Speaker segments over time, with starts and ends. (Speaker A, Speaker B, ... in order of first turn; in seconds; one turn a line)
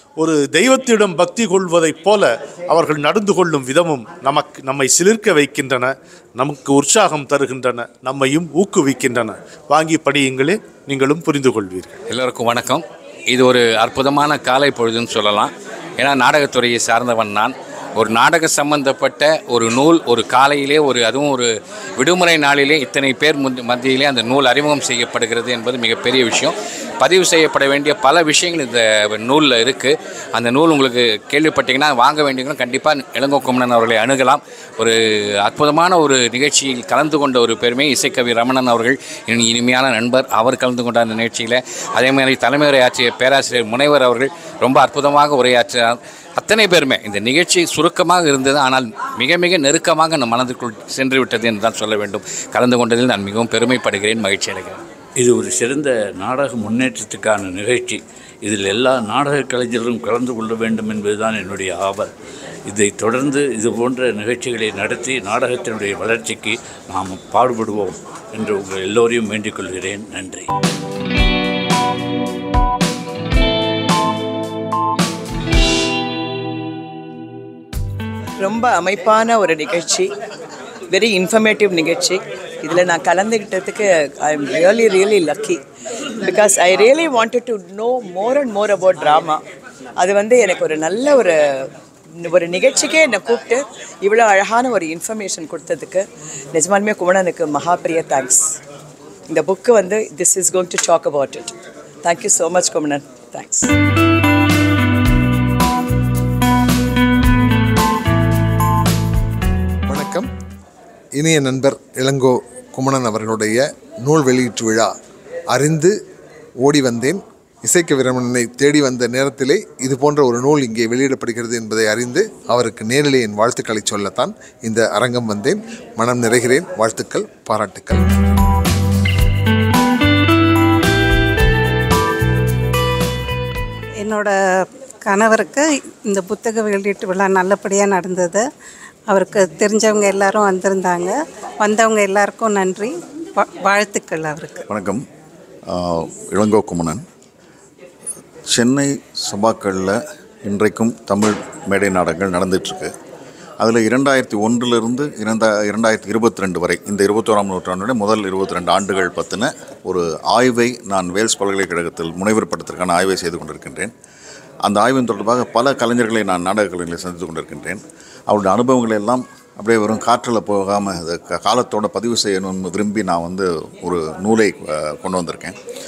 Speaker A: 0.2-12.0
Speaker B: 12.1-54.8
Speaker C: 55.2-62.1
Speaker C: 62.7-70.5
Speaker D: 78.4-80.1
Speaker D: 80.9-85.6
Speaker D: 86.2-89.4
Speaker D: 90.0-98.6
Speaker D: 99.3-103.7
Speaker E: 109.9-110.3
Speaker E: 111.1-114.9
Speaker E: 115.5-116.0
Speaker E: 116.6-128.2
Speaker F: 134.0-134.3
Speaker F: 135.0-138.4
Speaker F: 139.1-144.6
Speaker G: 144.7-145.0
Speaker G: 145.7-147.0
Speaker G: 148.5-152.9
Speaker G: 153.6-163.9
Speaker G: 164.6-175.6